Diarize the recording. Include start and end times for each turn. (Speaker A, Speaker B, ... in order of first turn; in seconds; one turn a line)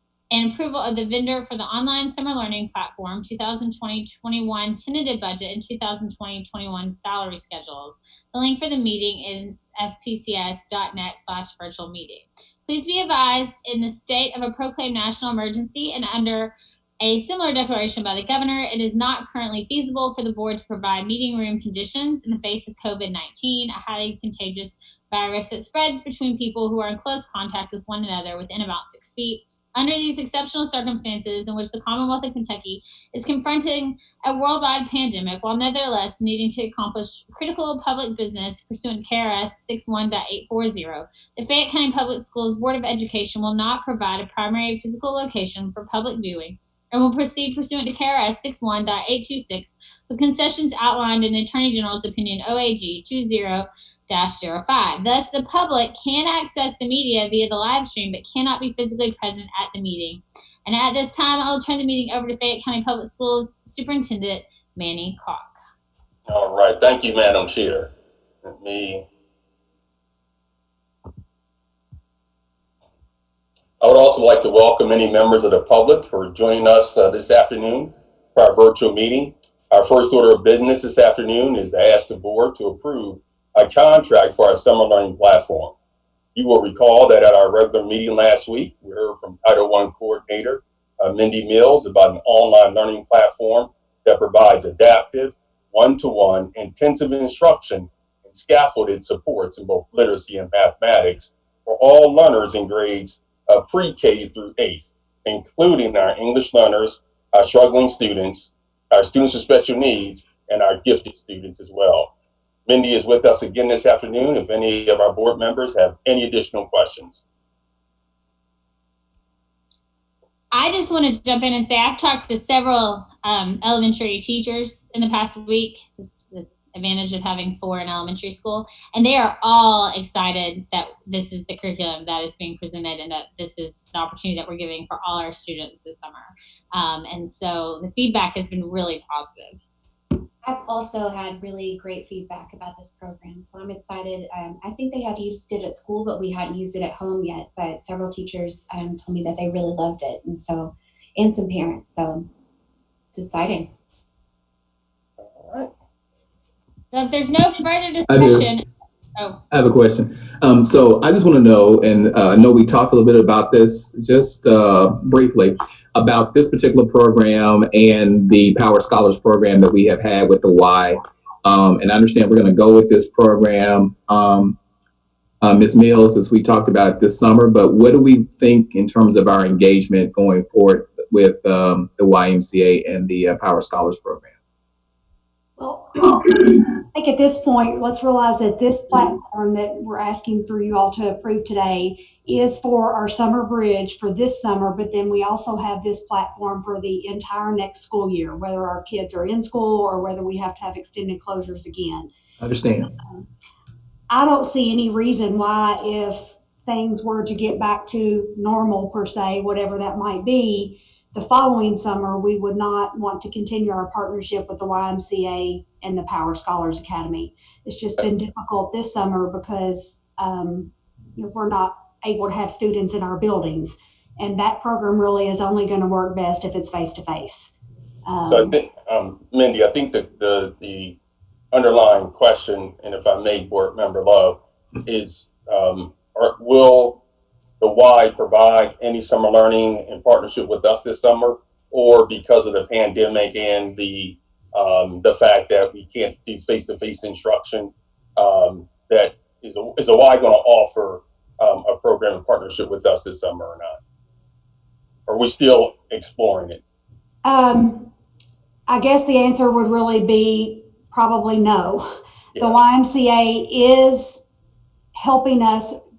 Speaker A: 0.3-65.5
Speaker B: 66.3-67.9
Speaker B: 68.4-69.0
Speaker B: 73.8-85.7
Speaker B: 86.3-112.1
Speaker B: 112.7-117.2
Speaker A: 120.5-139.6
Speaker C: 140.4-152.3
Speaker C: 153.1-153.7
Speaker A: 156.9-158.6
Speaker D: 158.1-158.5
Speaker D: 159.5-174.6
Speaker D: 175.4-184.3
Speaker E: 185.6-202.1
Speaker D: 202.4-202.9
Speaker E: 204.1-227.5
Speaker E: 228.0-228.5
Speaker B: 228.3-231.0
Speaker B: 231.5-237.0
Speaker B: 237.6-253.8
Speaker B: 255.1-256.6
Speaker E: 257.2-257.9
Speaker E: 258.7-264.2
Speaker B: 262.3-262.6
Speaker E: 264.9-265.8